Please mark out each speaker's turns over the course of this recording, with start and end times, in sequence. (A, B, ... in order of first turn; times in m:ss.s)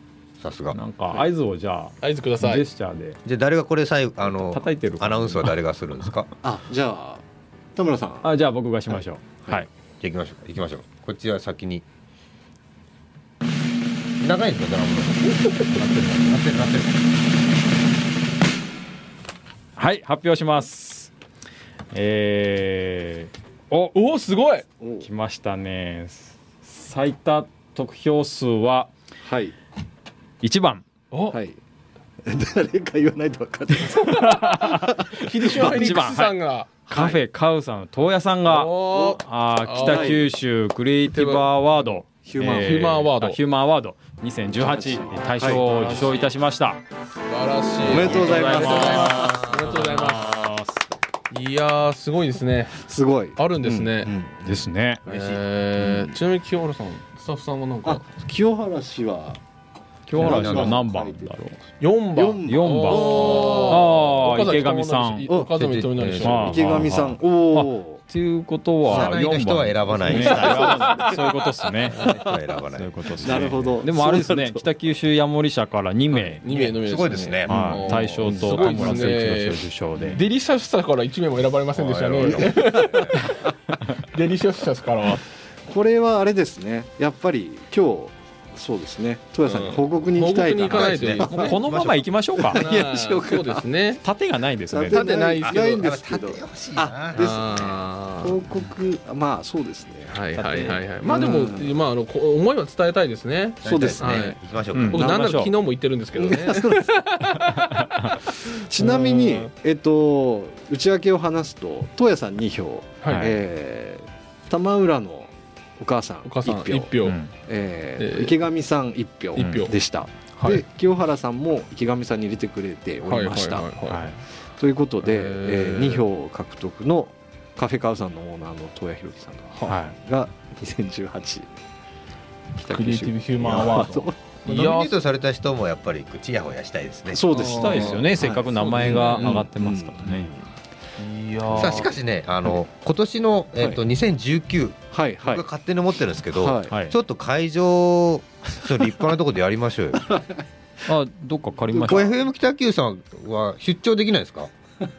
0:00.4-0:00.8 A
0:00.7-0:03.2 B
0:02.0-0:02.6 C
0:03.2-0:06.3 A
0:04.3-0:05.5 B
0:06.4-0:07.2 D
0:07.7-0:08.3 D
0:08.2-0:09.7 B
0:08.9-0:09.6 D
0:10.0-0:11.8 A
0:14.2-0:17.0 A
0:15.7-0:16.4 B
0:19.8-0:21.1 B
0:21.9-0:23.3 B
0:23.7-0:24.6 C
0:24.8-0:25.1 D
0:25.0-0:28.9 B
0:29.2-0:29.5 D
0:30.4-0:30.8 B
0:31.1-0:31.4 C
0:31.3-0:31.6 D
0:32.2-0:35.1 D
0:34.0-0:36.3 B
0:34.1-0:37.2 C
0:36.8-0:46.8 B
0:38.4-0:40.2 C
0:38.9-0:39.2 D
0:39.8-0:40.2 D
0:41.1-0:43.4 C
0:42.2-0:42.9 D
0:44.6-0:45.6 D
0:45.4-0:46.3 C
0:47.3-0:50.4 C
0:47.8-0:49.6 D
0:47.9-0:50.8 B
0:51.3-0:54.1 C
0:52.8-0:53.4 D
0:53.6-0:53.9 B
0:54.0-0:54.6 D
0:54.4-0:55.0 B
0:55.0-0:55.4 A
0:55.0-0:58.0 C
0:55.8-0:56.2 D
0:57.8-0:59.4 D
1:00.1-1:01.6 B
1:00.1-1:01.5 D
1:00.2-1:00.7 A
1:01.8-1:06.7 C
1:02.1-1:04.0 D
1:02.4-1:05.3 B
1:05.5-1:06.9 A
1:06.2-1:12.1 B
1:06.2-1:08.0 D
1:08.9-1:11.2 A
1:10.1-1:11.2 C
1:10.1-1:11.0 D
1:11.9-1:13.6 A
1:12.0-1:12.4 D
1:12.7-1:16.4 B
1:13.2-1:14.7 D
1:16.4-1:23.3 C
1:16.4-1:18.1 A
1:17.4-1:20.2 B
1:17.5-1:19.1 D
1:21.7-1:23.2 A
1:22.5-1:23.1 D
1:24.0-1:25.2 C
1:25.6-1:31.6 D
1:29.4-1:31.6 C
1:30.6-1:32.0 A
1:31.3-1:32.6 B
1:32.3-1:33.7 D
1:32.4-1:34.0 C
1:34.0-1:35.1 B
1:34.7-1:40.2 D
1:34.8-1:35.9 C
1:35.4-1:37.7 A
1:37.2-1:38.4 C
1:40.1-1:49.5 C
1:40.3-1:40.8 B
1:41.0-1:41.8 D
1:43.6-1:44.4 D
1:43.6-1:45.1 A
1:44.7-1:45.5 B
1:46.1-1:47.1 D
1:47.4-1:48.2 B
1:48.4-2:03.7 D
1:53.0-1:53.3 C
1:53.1-1:53.4 B
1:56.2-1:57.2 C
1:57.0-1:57.3 B
1:58.0-1:58.3 C
1:59.3-1:59.7 C
1:59.4-1:59.7 B
2:00.4-2:00.6 C
2:03.0-2:04.1 C
2:03.9-2:04.2 B
2:04.6-2:11.5 D
2:05.0-2:06.0 C
2:09.6-2:09.9 B
2:12.5-2:14.2 D
2:12.6-2:14.9 C
2:13.4-2:13.8 A
2:14.4-2:17.3 A
2:17.1-2:20.5 D
2:17.3-2:19.4 C
2:17.4-2:20.3 B
2:21.0-2:21.9 C
2:21.5-2:30.1 A
2:21.6-2:21.8 D
2:24.9-2:25.4 D
2:26.3-2:26.7 D
2:26.7-2:26.9 B
2:29.9-2:30.4 D
2:30.8-2:32.2 B
2:31.7-2:32.0 D
2:31.9-2:34.5 A